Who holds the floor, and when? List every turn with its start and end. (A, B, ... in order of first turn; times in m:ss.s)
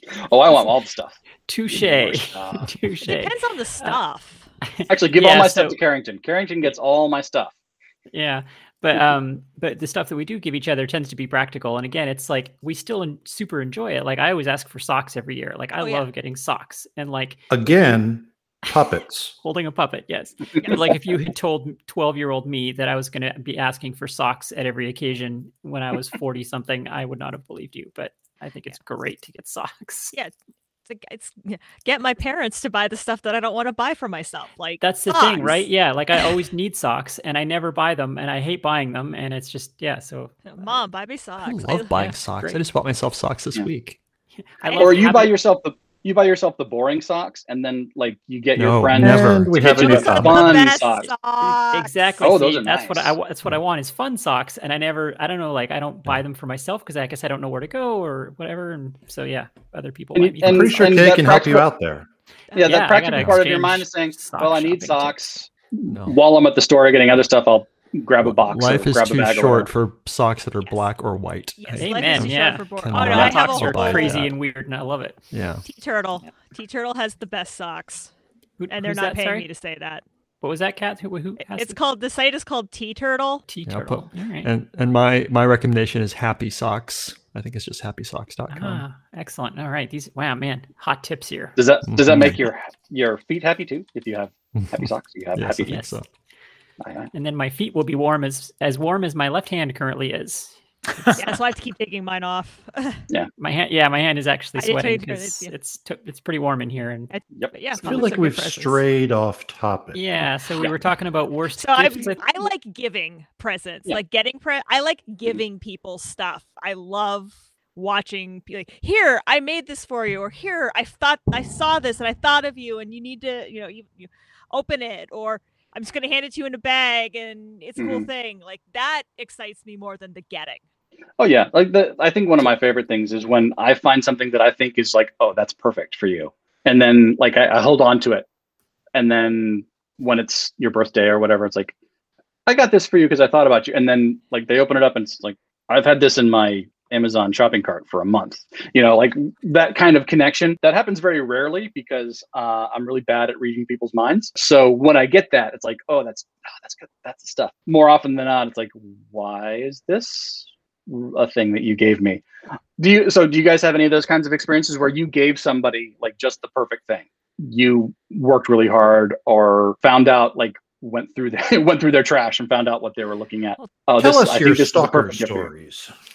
0:00.2-0:01.2 A
0:01.5-0:04.0 B
0:01.7-0:02.7 A
0:03.0-0:04.4 C
0:04.6-0:05.8 B
0:04.9-0:07.5 A
0:08.1-0:17.4 B
0:15.8-0:16.1 C
0:17.5-0:19.3 D
0:19.4-0:30.1 B
0:30.8-0:35.6 C
0:34.8-0:40.7 B
0:40.4-0:41.9 C
0:41.4-0:44.0 E
0:41.9-0:42.6 B
0:44.6-0:45.3 B
0:44.6-0:45.3 C
0:44.7-0:51.1 A
0:48.6-0:49.6 E
0:49.0-0:50.6 D
0:49.6-0:52.2 C
0:51.7-1:01.2 B
0:52.2-0:53.1 A
1:00.1-1:01.7 A
1:00.4-1:02.1 D
1:02.6-1:09.7 A
1:02.6-1:05.1 B
1:05.8-1:06.2 E
1:08.2-1:14.4 E
1:11.6-1:14.2 C
1:11.8-1:15.2 B
1:15.3-1:15.6 E
1:15.6-1:18.1 C
1:18.6-1:19.5 B
1:18.7-1:20.0 C
1:20.4-1:21.8 B
1:21.4-1:23.4 C
1:23.5-1:24.5 B
1:23.6-1:28.8 E
1:28.5-1:31.6 B
1:31.6-1:35.8 A
1:31.8-1:32.4 E
1:34.5-1:36.1 E
1:35.7-1:35.9 B
1:36.8-1:37.1 A
1:37.1-1:41.2 B
1:41.1-1:43.0 C
1:43.4-1:47.1 B
1:44.6-1:45.5 C
1:47.1-1:48.8 C
1:47.8-1:50.0 D
1:49.9-1:52.3 B
1:51.6-2:10.6 C
2:07.8-2:08.1 A
2:11.2-2:18.2 A
2:18.9-2:21.7 A
2:22.4-2:42.2 A
2:42.8-2:55.5 A
2:54.0-2:55.9 D